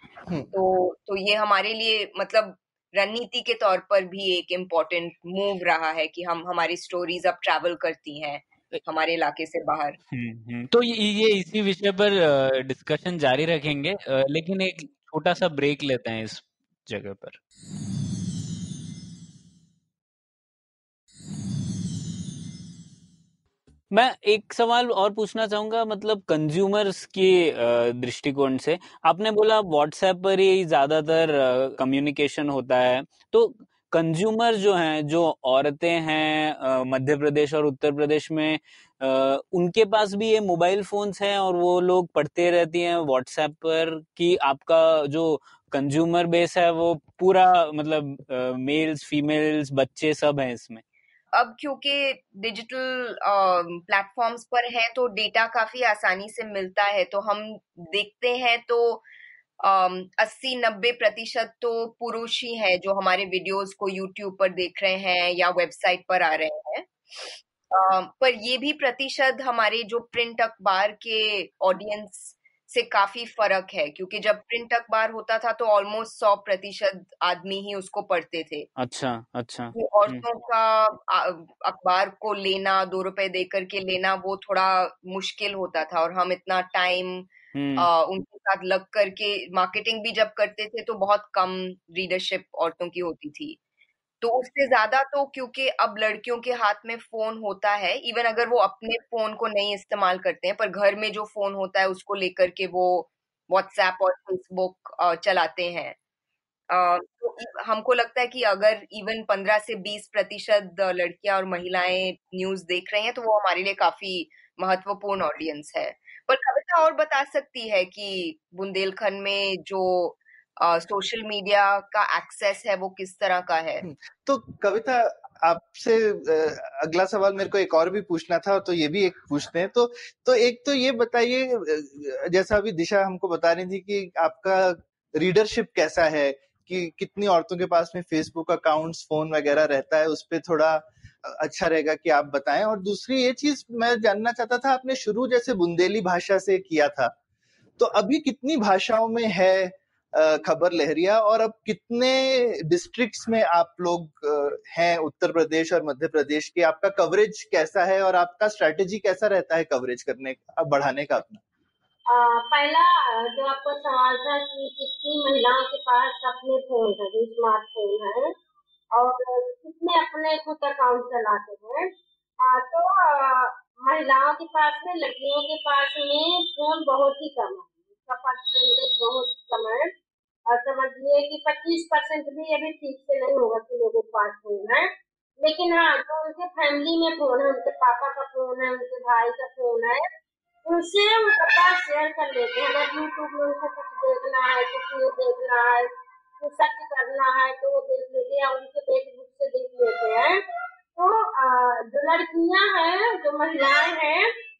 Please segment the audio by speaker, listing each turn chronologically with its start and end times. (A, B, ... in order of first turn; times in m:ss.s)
0:00.5-0:10.0 A
0:10.1-0:17.4 B
0:23.9-0:50.8 B
0:51.3-0:59.0 A
0:59.6-1:18.7 A
1:18.8-1:20.2 B
1:19.8-1:33.6 A
1:27.6-1:27.9 B
1:34.2-1:46.0 A
1:46.7-2:03.8 A
2:03.8-2:27.1 C
2:27.8-2:41.4 C
2:42.1-2:48.3 D
2:48.9-2:51.9 D
2:52.4-2:59.9 D
3:00.5-3:10.0 D
3:10.6-3:20.4 D
3:21.0-3:24.3 D